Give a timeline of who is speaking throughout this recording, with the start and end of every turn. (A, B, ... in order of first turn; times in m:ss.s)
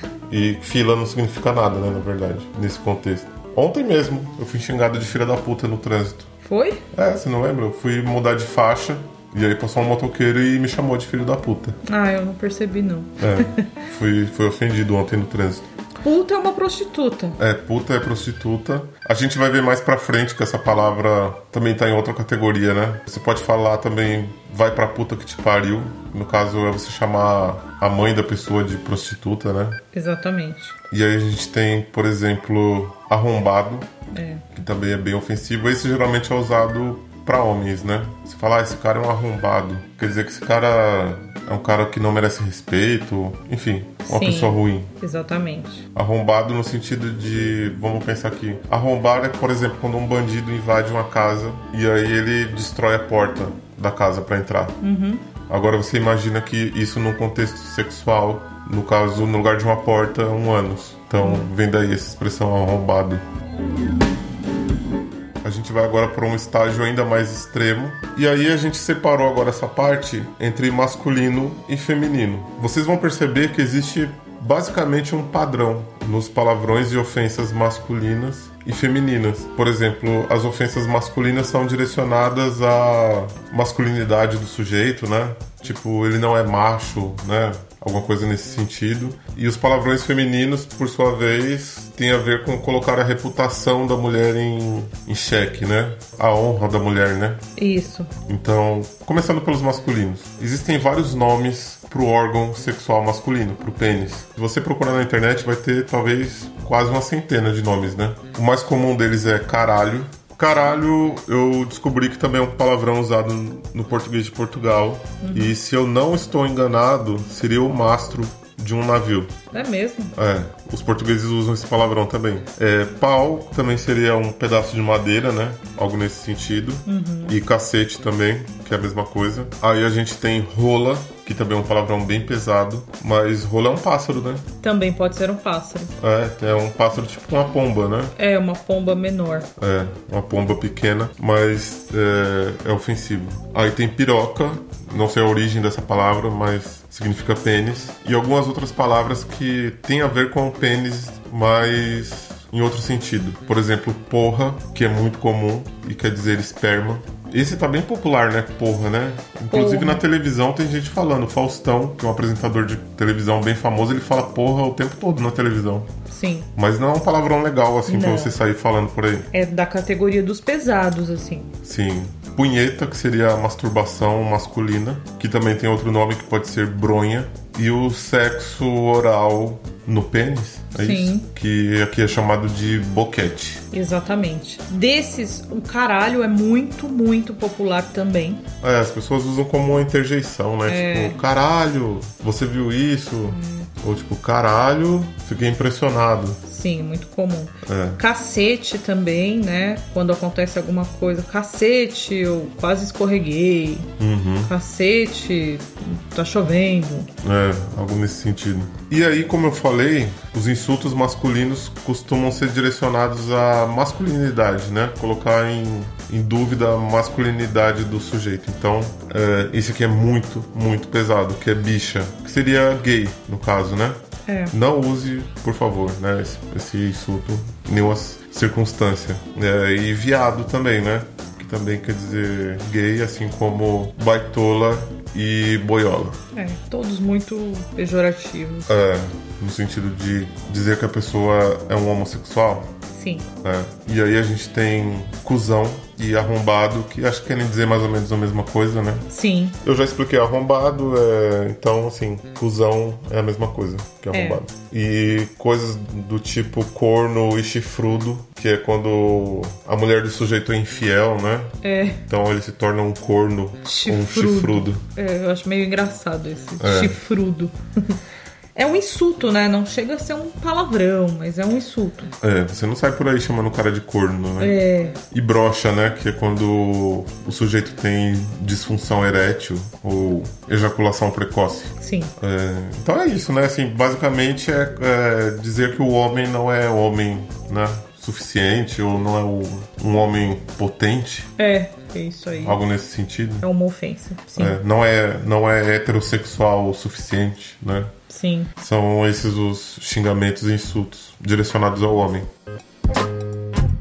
0:00.3-0:06.3 A
0:06.4-0:06.8 B
0:06.9-0:11.8 A
0:11.8-0:13.7 B
0:13.2-0:15.7 A
0:16.0-0:17.4 B
0:17.4-0:29.8 A
0:29.9-0:30.7 B
0:30.9-0:33.9 A
0:34.1-0:34.4 B
0:34.5-0:44.9 A
0:44.1-0:45.8 B
0:45.9-0:54.8 A
0:54.8-0:55.2 B
0:55.5-1:03.2 A
1:01.2-1:01.5 B
1:05.4-1:37.4 A
1:37.5-1:38.1 B
1:38.2-1:59.3 A
1:55.2-1:55.5 B
1:59.5-2:00.1 B
2:00.2-2:14.5 A
2:06.8-2:07.4 B
2:14.6-2:15.9 B
2:16.0-2:18.1 A
2:18.2-2:19.5 B
2:19.6-2:45.9 A
2:39.5-2:40.0 B
2:46.1-2:46.5 B
2:46.6-2:49.3 A
2:47.9-2:48.3 B
2:49.3-2:51.5 B
2:51.6-3:03.6 A
3:00.7-3:01.3 B
3:03.7-3:08.4 B
3:08.6-3:16.4 A
3:10.7-3:11.2 B
3:13.3-3:13.7 B
3:16.4-3:23.9 B
3:17.6-3:18.0 A
3:24.0-3:24.5 A
3:24.4-3:27.1 B
3:27.2-3:56.2 A
3:44.2-3:44.5 B
3:56.3-3:58.7 B
3:58.7-4:02.7 A
4:02.9-4:03.3 B
4:03.4-4:09.1 A
4:09.1-4:09.6 B
4:09.6-4:24.8 A
4:14.1-4:14.4 B
4:21.6-4:22.0 B
4:23.6-4:28.0 B
4:26.6-4:27.0 A
4:28.5-4:32.1 B
4:32.2-4:51.3 A
4:34.4-4:35.0 B
4:41.8-4:42.1 B
4:51.4-4:52.6 B
4:52.4-4:53.5 A
4:53.4-4:54.6 B
4:54.4-4:57.9 A
4:58.1-4:58.5 B
4:58.6-5:02.3 A